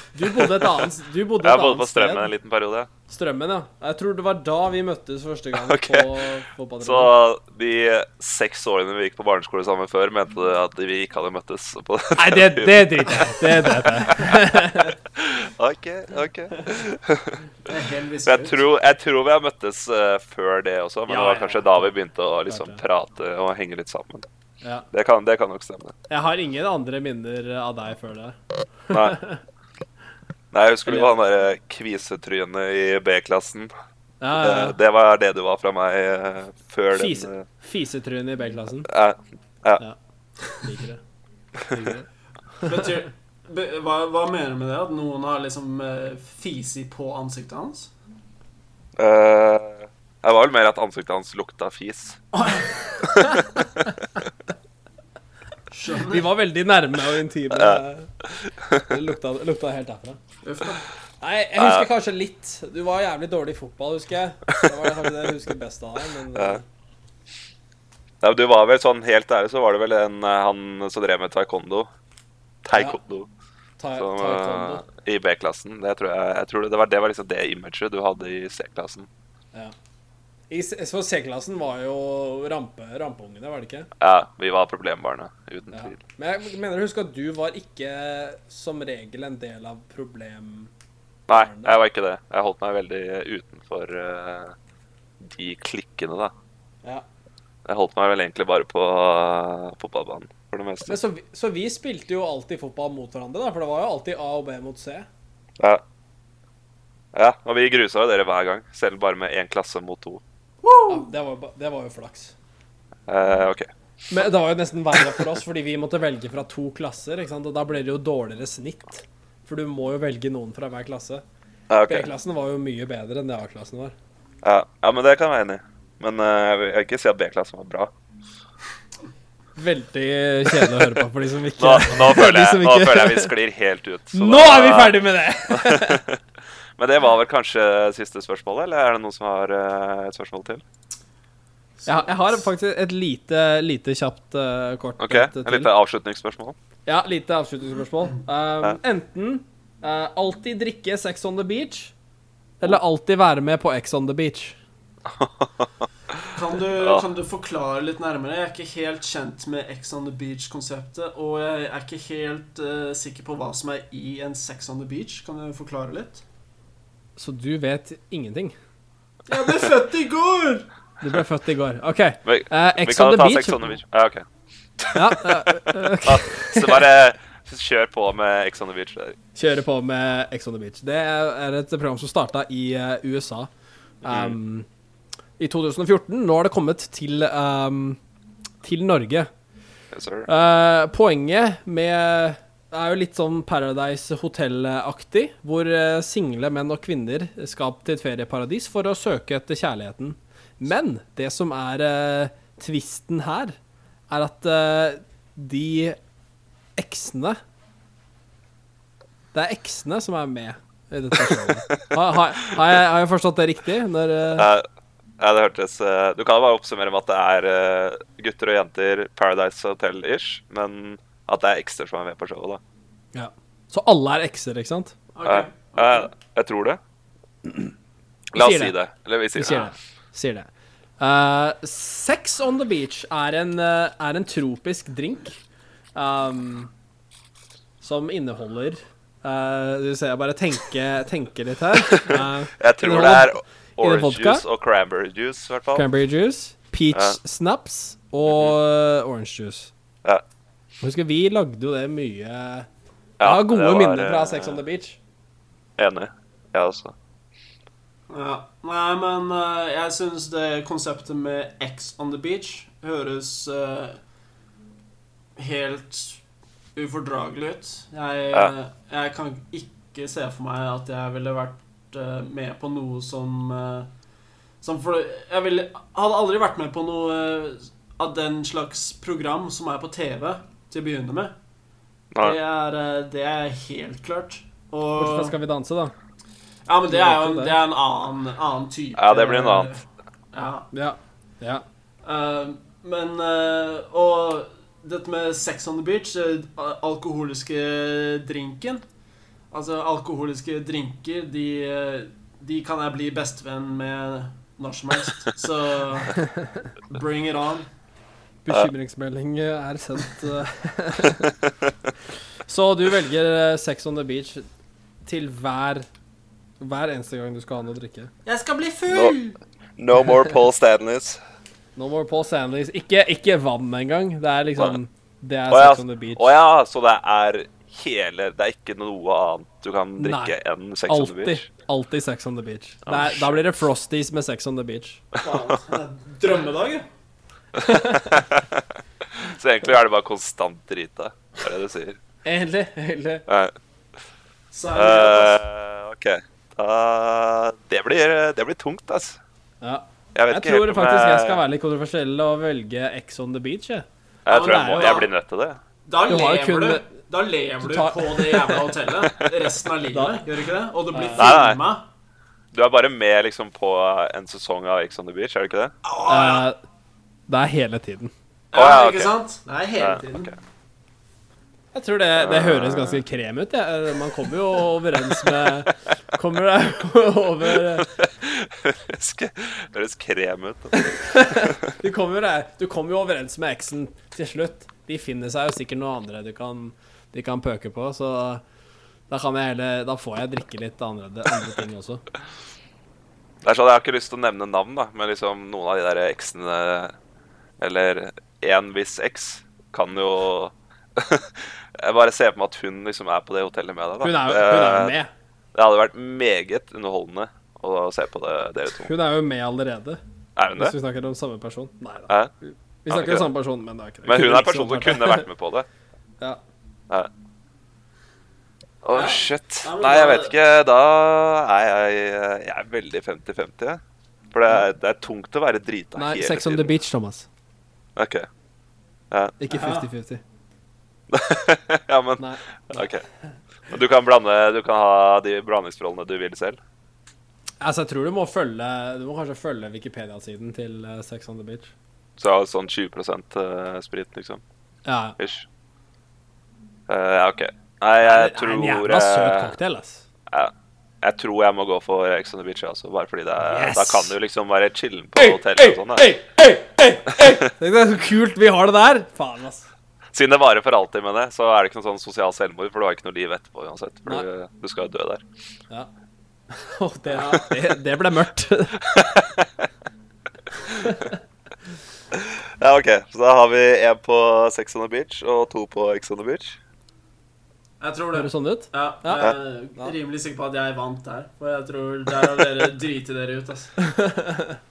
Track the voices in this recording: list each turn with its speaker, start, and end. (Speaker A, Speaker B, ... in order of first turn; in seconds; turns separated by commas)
Speaker A: 0.1-2.3, Speaker B: 0.3-0.9, Speaker B: 1.4-2.9, Speaker A: 3.1-7.1, Speaker B: 5.6-6.2, Speaker B: 6.8-17.4, Speaker A: 12.2-14.9, Speaker C: 17.6-18.6, Speaker B: 18.2-24.2, Speaker A: 21.1-21.9, Speaker A: 22.5-22.8, Speaker A: 24.6-24.9, Speaker B: 24.9-25.9, Speaker A: 26.1-29.4, Speaker B: 28.9-29.2, Speaker B: 30.5-33.7, Speaker A: 30.9-31.1, Speaker A: 34.2-34.8, Speaker B: 34.4-37.5, Speaker A: 36.9-38.9, Speaker B: 38.9-39.8, Speaker A: 40.5-41.0, Speaker A: 41.6-42.1, Speaker A: 42.6-43.0, Speaker C: 42.6-47.9, Speaker B: 49.0-52.2, Speaker C: 52.3-52.7, Speaker C: 55.7-56.3, Speaker A: 56.0-58.1, Speaker B: 57.5-58.8, Speaker A: 58.9-60.2, Speaker C: 60.4-60.8, Speaker A: 61.2-66.6, Speaker B: 61.6-61.9, Speaker B: 66.3-66.6, Speaker B: 68.2-71.9, Speaker B: 72.6-73.3, Speaker A: 73.8-74.8, Speaker B: 73.9-79.1, Speaker A: 80.5-83.9, Speaker B: 84.0-86.0, Speaker A: 85.7-90.7, Speaker B: 91.3-94.5, Speaker A: 91.3-91.8, Speaker B: 95.2-96.3, Speaker B: 97.7-101.0, Speaker A: 100.8-105.1, Speaker B: 107.1-110.2, Speaker C: 110.6-111.1, Speaker A: 110.9-112.3, Speaker B: 113.1-113.7, Speaker A: 114.1-121.2, Speaker B: 115.0-115.3, Speaker B: 121.7-122.1, Speaker A: 121.9-123.9, Speaker B: 124.4-127.9, Speaker A: 129.6-133.3, Speaker B: 130.5-130.8, Speaker B: 131.6-136.2, Speaker A: 134.1-136.0, Speaker B: 136.8-140.6, Speaker C: 141.8-142.4, Speaker A: 141.8-145.7, Speaker B: 145.0-146.6, Speaker A: 146.8-151.9, Speaker A: 152.6-154.6, Speaker B: 155.1-155.7, Speaker C: 156.3-166.2, Speaker B: 156.8-157.0, Speaker A: 167.2-168.6, Speaker C: 169.3-170.7, Speaker A: 171.0-173.8, Speaker B: 172.2-174.2, Speaker B: 174.8-179.2, Speaker A: 174.9-176.9, Speaker A: 179.3-183.5, Speaker A: 184.0-184.7, Speaker B: 184.1-184.3, Speaker A: 185.4-188.0, Speaker A: 188.6-189.3, Speaker B: 189.9-190.3, Speaker A: 190.3-203.6, Speaker A: 204.1-206.0, Speaker A: 206.8-207.4, Speaker A: 209.3-214.5, Speaker B: 214.3-214.7, Speaker B: 215.2-222.6, Speaker A: 223.1-224.9, Speaker C: 225.1-226.1, Speaker B: 225.2-226.8, Speaker B: 228.3-229.7, Speaker A: 228.3-228.7, Speaker A: 229.3-235.4, Speaker A: 235.9-236.7, Speaker A: 237.8-244.4, Speaker B: 241.8-245.9, Speaker A: 245.7-249.7, Speaker A: 250.8-252.7, Speaker B: 253.2-254.6, Speaker A: 253.2-255.0, Speaker B: 255.8-256.9, Speaker C: 258.1-264.0, Speaker C: 265.4-266.2, Speaker C: 266.7-273.9, Speaker C: 274.6-281.3, Speaker C: 282.2-285.3, Speaker A: 285.0-285.9, Speaker C: 286.7-290.7, Speaker A: 286.9-287.6, Speaker B: 289.0-289.7, Speaker A: 290.7-291.6, Speaker C: 292.0-298.8, Speaker C: 299.5-306.2, Speaker A: 306.1-306.7, Speaker C: 306.9-307.7, Speaker A: 308.4-311.3, Speaker A: 312.4-314.4, Speaker A: 315.0-315.9, Speaker A: 316.6-318.1, Speaker C: 318.2-319.4, Speaker B: 319.8-321.2, Speaker A: 321.8-326.3, Speaker B: 325.5-331.4, Speaker A: 330.0-330.3, Speaker A: 330.9-335.1, Speaker B: 332.8-333.4, Speaker C: 335.2-336.9, Speaker B: 337.6-338.6, Speaker A: 337.6-338.0, Speaker B: 339.2-342.0, Speaker A: 342.2-343.2, Speaker B: 343.3-343.5, Speaker C: 344.5-345.4, Speaker B: 344.7-349.2, Speaker A: 349.6-353.9, Speaker B: 350.1-351.4, Speaker B: 354.2-355.6, Speaker C: 354.3-355.1, Speaker A: 354.4-355.1, Speaker C: 355.8-361.8, Speaker A: 356.1-356.9, Speaker A: 357.6-358.7, Speaker A: 359.9-360.2, Speaker A: 360.9-361.4, Speaker B: 361.2-361.6, Speaker B: 362.5-365.7, Speaker C: 365.8-366.4, Speaker A: 366.1-366.6, Speaker A: 367.3-368.1, Speaker C: 368.5-370.3, Speaker B: 368.5-369.1, Speaker B: 369.8-370.4, Speaker A: 371.7-377.9, Speaker B: 372.2-373.0, Speaker B: 377.8-381.7, Speaker A: 380.7-388.4, Speaker A: 389.1-392.0, Speaker B: 393.4-396.9, Speaker B: 397.6-404.9, Speaker A: 404.0-405.1, Speaker B: 405.5-408.9, Speaker A: 408.8-410.0, Speaker B: 410.4-410.8, Speaker A: 410.6-415.3, Speaker B: 412.9-413.3, Speaker B: 414.1-415.7, Speaker B: 418.8-423.8, Speaker C: 418.9-420.3, Speaker B: 424.3-426.7, Speaker A: 425.9-427.3, Speaker B: 427.9-428.3, Speaker B: 429.1-429.4, Speaker A: 429.4-430.2, Speaker C: 429.5-429.9, Speaker B: 431.1-433.0, Speaker A: 432.2-432.9, Speaker B: 433.7-436.6, Speaker A: 437.6-441.7, Speaker B: 442.2-444.4, Speaker A: 444.9-445.2, Speaker B: 445.2-445.4, Speaker B: 446.9-449.5, Speaker A: 448.0-450.1, Speaker B: 450.3-456.1, Speaker A: 453.4-454.1, Speaker A: 455.1-459.7, Speaker B: 460.1-465.2, Speaker A: 466.5-469.0, Speaker B: 467.1-467.5, Speaker B: 468.8-469.5, Speaker A: 470.8-471.2, Speaker B: 472.1-476.6, Speaker C: 477.8-483.8, Speaker A: 478.1-479.9, Speaker A: 483.8-484.6